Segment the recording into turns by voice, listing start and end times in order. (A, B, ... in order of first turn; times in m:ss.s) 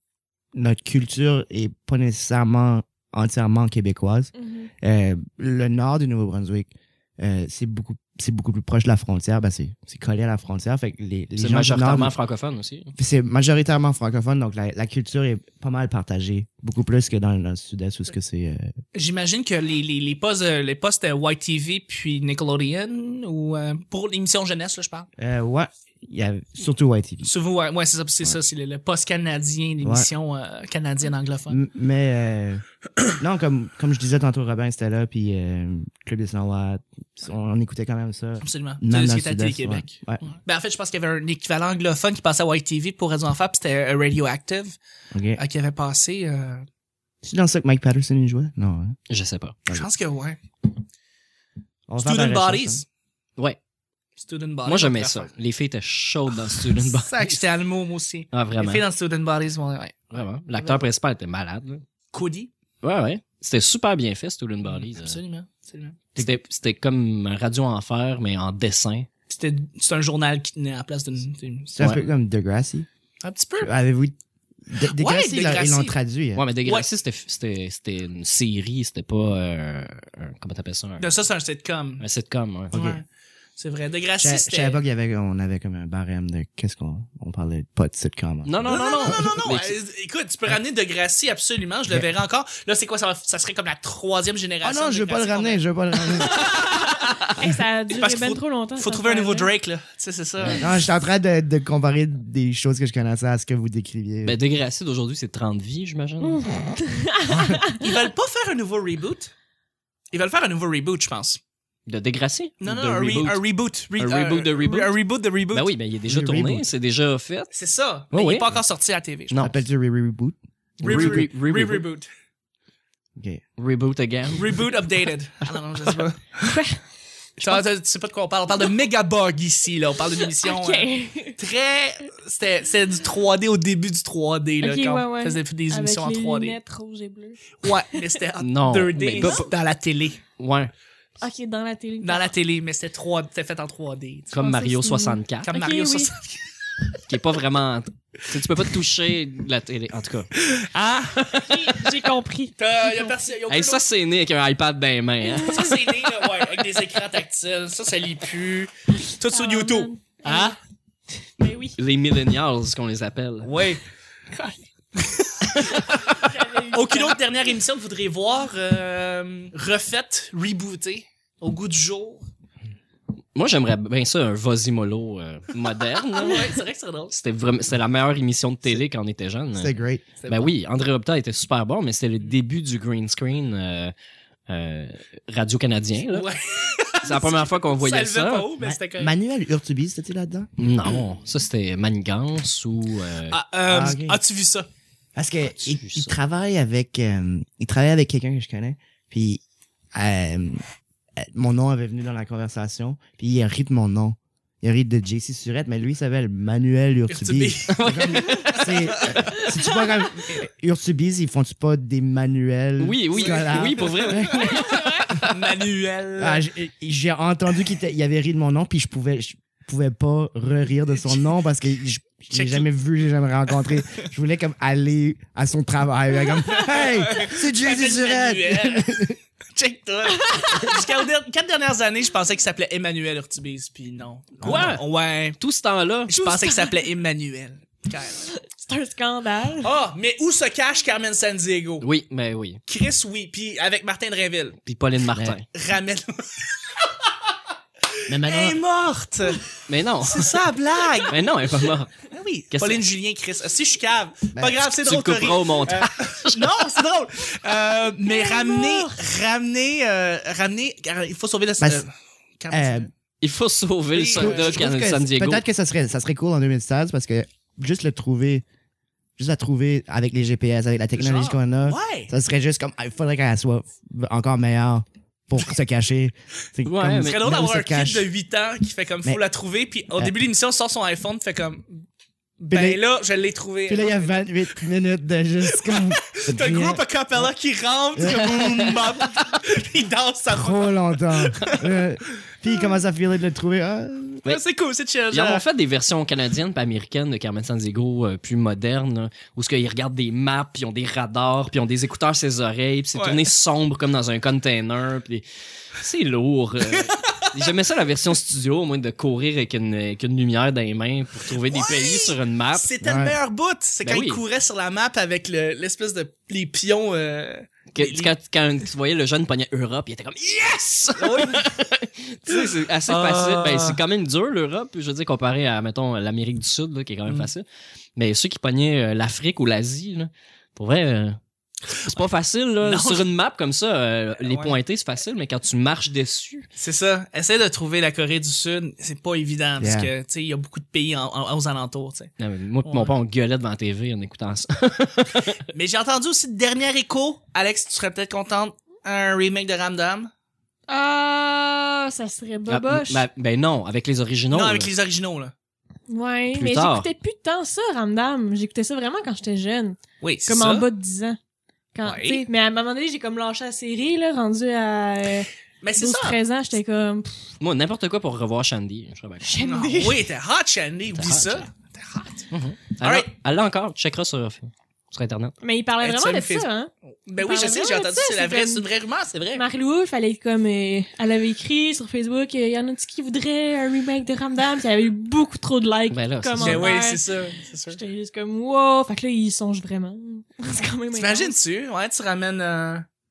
0:00.5-0:12.1 A
0:04.4-0:04.7 B
0:11.4-0:12.9 C
0:13.0-0:18.7 A
0:18.9-0:25.1 D
0:25.2-0:27.3 A
0:27.2-0:31.6 D
0:29.8-0:30.1 A
0:31.5-0:32.6 A
0:33.2-0:40.2 A
0:38.4-0:44.8 D
0:45.1-0:45.4 A
0:45.4-0:46.7 D
0:47.2-0:49.0 A
0:49.1-0:49.6 C
0:49.7-0:50.4 D
0:51.9-0:52.8 A
0:52.0-0:52.9 D
0:54.2-0:55.3 D
0:54.7-0:57.4 C
0:56.5-1:00.8 D
0:58.3-0:58.8 C
1:00.1-1:01.8 C
1:02.1-1:02.5 D
1:02.8-1:05.2 C
1:04.7-1:06.2 D
1:06.2-1:09.1 C
1:09.3-1:11.8 D
1:11.7-1:12.9 A
1:13.2-1:13.7 D
1:13.6-1:14.2 A
1:14.7-1:16.4 A
1:14.9-1:16.0 D
1:16.4-1:21.1 C
1:21.0-1:22.0 D
1:22.0-1:22.7 C
1:22.7-1:23.0 A
1:22.7-1:23.0 D
1:23.6-1:24.8 D
1:24.2-1:29.3 A
1:28.4-1:29.8 C
1:28.6-1:35.6 D
1:34.6-1:36.5 A
1:36.1-1:37.3 D
1:37.0-1:39.5 B
1:37.9-1:40.8 D
1:40.4-1:44.4 A
1:44.2-1:46.4 C
1:46.2-1:48.0 B
1:47.3-1:47.6 A
1:47.8-1:49.3 D
1:50.1-1:51.4 D
1:51.9-1:53.4 C
1:52.6-1:55.7 D
1:54.0-1:55.0 C
1:55.5-1:57.5 C
1:56.1-1:56.7 A
1:57.5-1:59.3 D
1:58.1-1:58.5 C
1:59.3-1:59.6 C
1:59.3-2:01.2 A
2:00.8-2:01.8 C
2:00.8-2:02.1 D
2:03.2-2:03.4 A
2:03.6-2:04.6 C
2:04.4-2:06.4 D
2:06.4-2:06.8 B
2:07.4-2:16.6 D
2:10.3-2:11.4 B
2:14.6-2:17.6 B
2:17.6-2:20.2 D
2:18.4-2:19.5 C
2:19.1-2:19.4 B
2:20.4-2:20.7 C
2:21.2-2:22.3 B
2:22.0-2:24.3 D
2:24.3-2:25.5 C
2:24.4-2:26.1 B
2:25.5-2:26.4 D
2:27.1-2:30.3 C
2:30.4-2:31.8 D
2:31.2-2:31.4 C
2:31.4-2:33.2 B
2:32.6-2:33.8 D
2:33.5-2:35.7 C
2:35.4-2:40.6 D
2:39.3-2:40.6 B
2:41.2-2:41.8 B
2:41.8-2:43.5 C
2:43.4-2:43.8 D
2:45.0-2:52.2 D
2:45.9-2:47.2 B
2:53.4-2:56.6 C
2:56.1-2:57.1 D
2:57.1-2:59.7 C
2:59.6-3:00.1 A
3:00.2-3:00.5 D
3:00.3-3:03.9 C
3:04.5-3:06.3 C
3:06.0-3:09.1 D
3:07.0-3:08.5 C
3:08.6-3:10.5 A
3:10.6-3:13.4 C
3:13.3-3:14.7 D
3:13.7-3:14.2 A
3:15.2-3:19.4 A
3:15.6-3:16.2 C
3:19.9-3:20.6 A
3:21.2-3:34.6 A
3:27.1-3:29.4 D
3:27.7-3:28.9 C
3:32.8-3:34.7 C
3:33.1-3:34.7 D
3:34.4-3:35.2 B
3:35.2-3:36.4 D
3:36.2-3:49.2 A
3:42.3-3:42.7 D
3:46.8-3:49.0 D
3:49.6-3:55.4 D
3:50.2-3:50.9 B
3:54.4-3:54.7 A
3:54.4-3:54.8 C
3:55.4-3:56.1 C
3:56.1-3:58.2 D
3:56.1-3:56.9 B
3:58.1-3:59.7 B
3:59.6-4:01.9 D
4:01.8-4:02.6 C
4:02.7-4:04.6 D
4:04.7-4:05.5 C
4:05.5-4:06.9 D
4:08.1-4:08.6 A
4:08.1-4:09.5 D
4:09.7-4:10.4 C
4:10.0-4:11.2 D
4:11.1-4:11.9 C
4:12.0-4:22.9 D
4:12.5-4:12.8 C
4:14.3-4:14.6 A
4:14.7-4:16.4 C
4:18.1-4:19.0 B
4:21.6-4:21.9 A
4:22.5-4:22.9 A
4:23.2-4:25.4 C
4:23.9-4:24.6 D
4:24.2-4:28.4 A
4:29.2-4:38.1 A
4:31.0-4:31.4 C
4:31.6-4:32.1 D
4:36.6-4:37.2 C
4:37.0-4:41.8 D
4:42.4-4:44.6 D
4:42.5-4:42.8 A
4:43.7-4:47.3 A
4:45.5-4:51.7 D
4:48.0-4:49.0 A
4:50.3-4:54.3 A
4:54.2-4:55.4 D
4:55.1-5:12.7 C
5:02.9-5:03.2 D
5:11.3-5:18.1 D
5:12.8-5:13.2 A
5:13.8-5:14.2 C
5:17.7-5:27.4 C
5:21.0-5:21.5 D
5:22.3-5:23.8 D
5:28.0-5:31.2 C
5:31.9-5:36.5 C
5:32.6-5:33.1 D
5:34.2-5:34.6 D
5:36.6-5:42.1 D
5:39.6-5:39.9 A
5:42.2-5:45.4 C
5:42.6-5:42.9 D
5:45.5-5:50.1 D
5:50.7-5:53.0 B
5:52.5-5:54.7 C
5:54.3-5:55.3 D
5:55.9-6:01.2 B
5:56.3-5:56.9 C
6:00.0-6:00.7 D
6:01.7-6:07.2 B
6:01.8-6:02.3 D
6:05.6-6:06.2 D
6:07.4-6:09.4 C
6:09.2-6:10.1 B
6:09.4-6:12.3 D
6:11.0-6:11.4 C
6:12.3-6:15.4 C
6:12.8-6:13.1 D
6:15.4-6:18.6 B
6:15.8-6:19.4 D
6:19.3-6:27.0 B
6:25.9-6:26.8 C
6:26.4-6:27.8 D
6:27.7-6:31.4 B
6:30.9-6:32.9 D